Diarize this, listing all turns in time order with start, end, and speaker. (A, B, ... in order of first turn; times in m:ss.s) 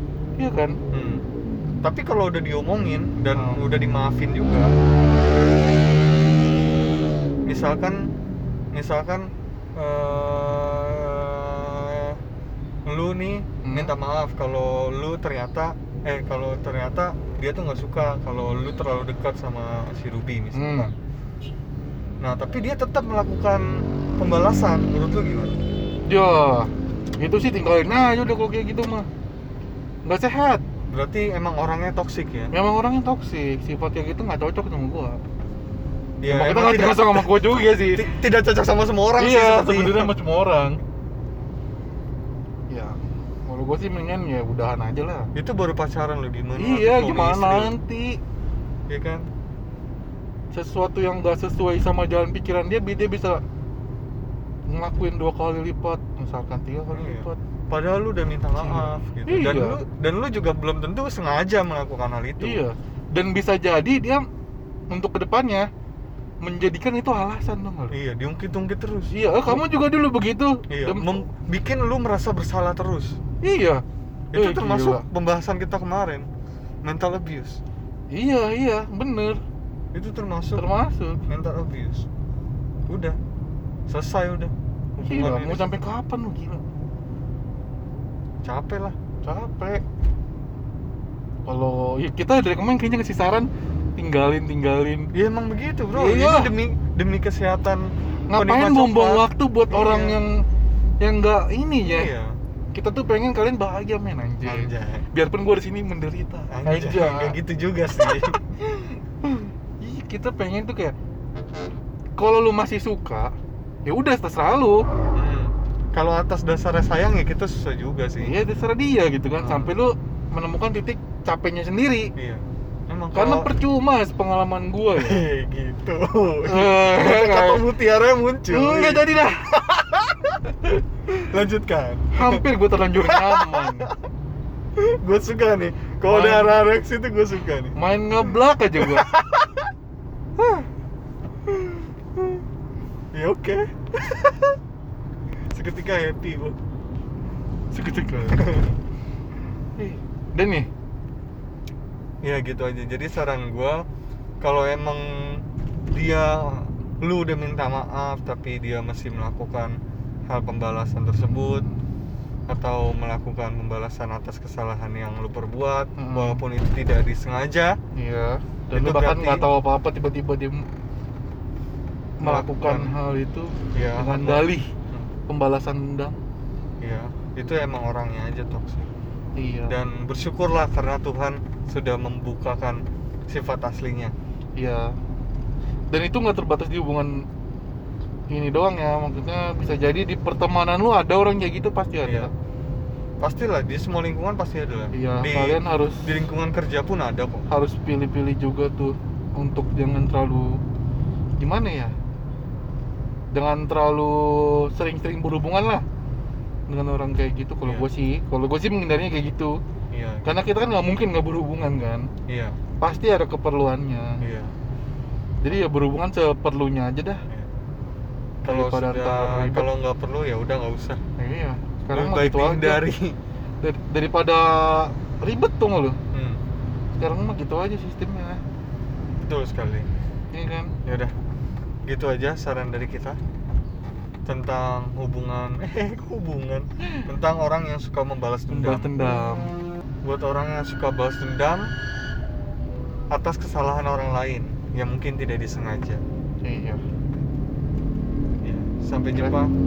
0:00.4-0:00.8 A
0:00.9-0:01.2 B
0:01.8-0:04.7 B
0:03.3-0:03.8 A
0:07.4-0:08.1 B
0:08.7-0:12.2 B
0:12.8-0:20.9 B
0:13.6-0:13.9 A
0:20.5-0:20.9 A
0:22.2-0:25.6 B
0:26.0-0:29.1 A
0:30.0-0:30.6 A
0:30.9-0:32.5 B
0:32.5-0:35.2 A
0:36.2-0:40.1 B
0:36.3-0:38.1 A
0:39.2-0:40.8 A
0:42.7-0:45.3 A
0:45.3-0:47.7 B
0:46.6-0:48.2 A
0:48.9-0:49.3 B
0:50.5-0:53.4 A
0:54.7-0:57.4 A
0:56.9-1:02.6 B
0:58.6-0:59.8 A
1:02.4-1:04.2 A
1:04.9-1:05.7 A
1:06.4-1:07.9 A
1:07.9-1:09.6 B
1:09.1-1:11.2 A
1:10.7-1:13.2 B
1:13.4-1:13.8 A
1:14.3-1:16.3 B
1:14.3-1:15.0 A
1:16.8-1:17.6 B
1:18.1-1:19.4 A
1:19.9-1:20.6 B
1:20.6-1:21.2 A
1:21.3-1:22.1 B
1:22.9-1:23.2 B
1:23.9-1:25.8 B
1:25.0-1:26.6 A
1:28.4-1:28.9 B
1:29.2-1:29.8 A
1:31.4-1:35.1 A
1:35.1-1:40.2 B
1:35.9-1:36.5 A
1:38.3-1:40.4 A
1:41.0-1:42.1 A
1:41.8-1:42.4 B
1:42.7-1:47.4 A
1:44.4-1:45.1 B
1:46.5-1:48.4 B
1:48.1-1:50.9 A
1:52.2-1:53.3 A
1:53.8-1:54.8 A
1:55.1-1:58.3 B
1:58.2-2:02.1 A
1:59.4-1:59.7 B
2:02.2-2:03.5 B
2:03.1-2:05.2 A
2:05.0-2:13.9 B
2:06.5-2:07.6 A
2:08.5-2:09.5 A
2:12.1-2:13.9 A
2:14.8-2:17.7 B
2:16.0-2:16.6 A
2:17.8-2:19.1 A
2:18.8-2:19.6 B
2:20.4-2:20.6 A
2:23.1-2:24.5 B
2:25.5-2:26.6 B
2:27.7-2:28.5 A
2:28.3-2:28.7 B
2:29.8-2:30.7 A
2:32.2-2:33.8 B
2:34.4-2:41.6 B
2:42.5-2:47.8 B
2:46.0-2:46.4 A
2:47.9-2:50.6 A
2:48.7-2:49.5 B
2:52.2-2:54.7 A
2:52.2-2:52.9 B
2:53.7-2:55.1 B
2:55.3-2:56.2 A
2:56.8-2:58.9 B
2:59.4-2:59.7 A
2:59.7-3:04.1 B
3:04.6-3:04.9 A
3:05.9-3:07.2 A
3:08.3-3:12.3 A
3:12.0-3:12.3 B
3:13.2-3:17.4 B
3:14.9-3:16.1 A
3:17.5-3:20.6 A
3:21.4-3:21.9 A
3:23.3-3:25.8 A
3:26.7-3:29.6 A
3:29.9-3:30.3 B
3:30.2-3:32.1 A
3:32.3-3:32.6 B
3:32.8-3:34.2 A
3:34.2-3:34.5 B
3:35.4-3:37.2 A
3:38.4-3:41.0 B
3:38.5-3:39.7 A
3:41.2-3:42.8 A
3:41.9-3:43.2 B
3:43.6-3:46.0 A
3:46.1-3:46.4 B
3:47.0-3:48.4 A
3:49.2-3:49.9 B
3:50.3-3:50.7 A
3:50.8-3:51.1 B
3:51.8-3:53.2 B
3:54.2-3:58.9 B
3:58.5-3:59.5 A
4:00.0-4:01.7 B
4:03.1-4:06.0 B
4:06.4-4:06.8 A
4:08.4-4:09.5 B